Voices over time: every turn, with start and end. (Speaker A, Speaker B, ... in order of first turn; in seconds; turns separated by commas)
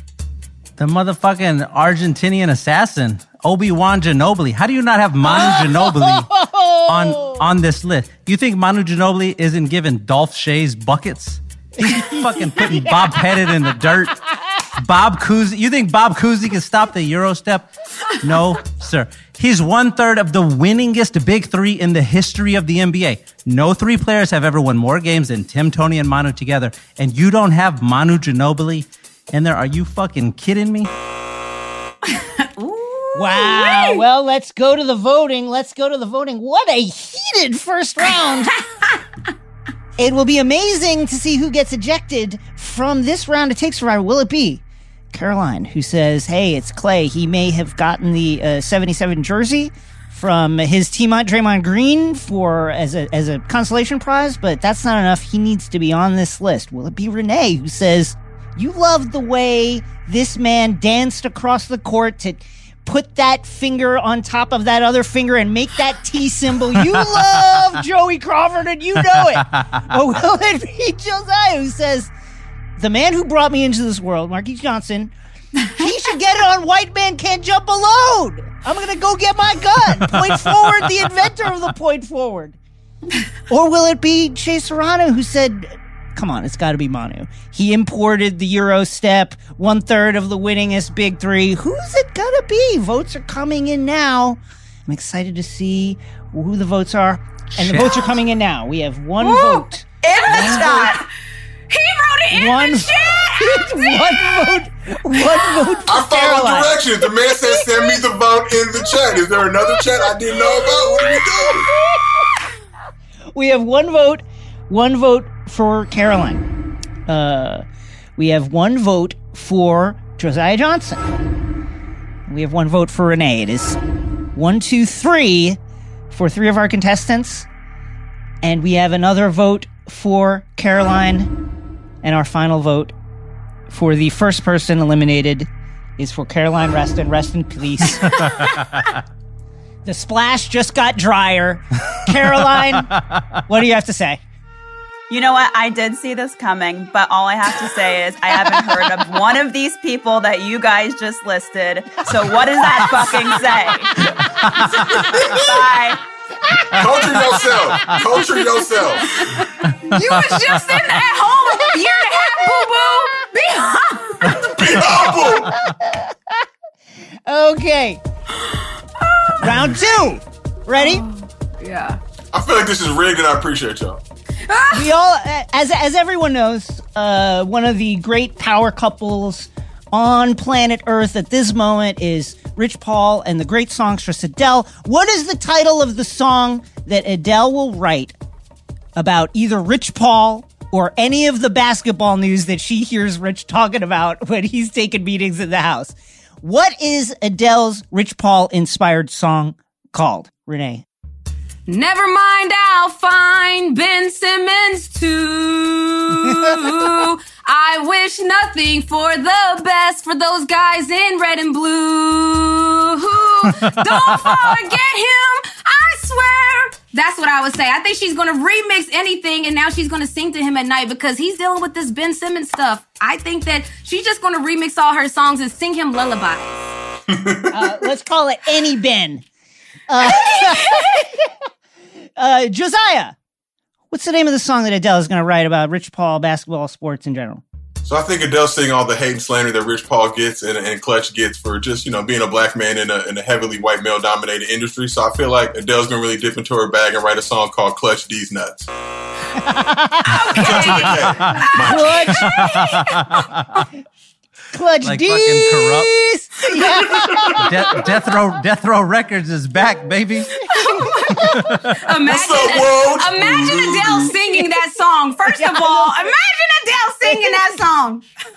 Speaker A: 0.8-6.3, Speaker B: 5.2-7.4, Speaker A: 6.9-14.2, Speaker B: 11.8-13.7, Speaker A: 14.8-17.7, Speaker A: 18.2-30.9, Speaker C: 32.1-34.0, Speaker B: 33.1-38.6, Speaker B: 40.0-72.1, Speaker B: 72.8-75.1, Speaker B: 75.7-82.6, Speaker A: 80.4-80.6, Speaker B: 83.5-100.9, Speaker A: 97.6-98.0, Speaker C: 99.2-101.1, Speaker D: 100.0-101.0, Speaker C: 101.7-104.6, Speaker B: 102.3-106.8, Speaker C: 105.2-105.8, Speaker E: 105.9-111.7, Speaker B: 111.5-112.2, Speaker B: 113.3-116.5, Speaker B: 117.1-117.7, Speaker B: 118.2-121.0, Speaker B: 122.3-123.8, Speaker B: 124.3-125.6, Speaker B: 126.1-127.5, Speaker B: 128.4-131.3, Speaker B: 132.0-132.9, Speaker B: 133.7-138.3, Speaker A: 138.4-138.8, Speaker B: 139.8-142.9, Speaker B: 143.5-144.2, Speaker D: 145.1-154.0, Speaker C: 152.9-153.3, Speaker A: 154.4-155.1, Speaker E: 155.1-155.5, Speaker D: 155.4-156.0, Speaker E: 156.8-159.2, Speaker C: 159.1-164.5, Speaker A: 159.6-160.5, Speaker E: 164.4-165.5, Speaker B: 164.7-166.4, Speaker B: 167.3-168.0, Speaker C: 168.4-169.5, Speaker B: 169.4-171.0, Speaker C: 170.8-172.0, Speaker E: 172.3-174.0, Speaker C: 174.4-174.9, Speaker B: 174.7-188.2, Speaker B: 189.0-200.8, Speaker C: 201.7-226.8, Speaker A: 213.7-214.3, Speaker E: 227.1-227.6, Speaker B: 227.5-229.2, Speaker B: 229.9-231.3, Speaker C: 230.0-231.0, Speaker B: 232.2-233.2, Speaker B: 233.9-237.4, Speaker E: 237.8-248.7, Speaker B: 249.4-250.6, Speaker C: 250.1-253.2, Speaker E: 250.3-252.1, Speaker B: 251.6-252.2, Speaker A: 252.2-253.4, Speaker B: 254.5-257.8, Speaker A: 254.8-256.0, Speaker E: 256.8-257.4, Speaker A: 257.4-260.5, Speaker C: 260.5-268.1, Speaker B: 260.7-261.1, Speaker A: 261.1-261.8, Speaker E: 262.1-264.1, Speaker B: 265.3-266.1, Speaker B: 267.0-267.5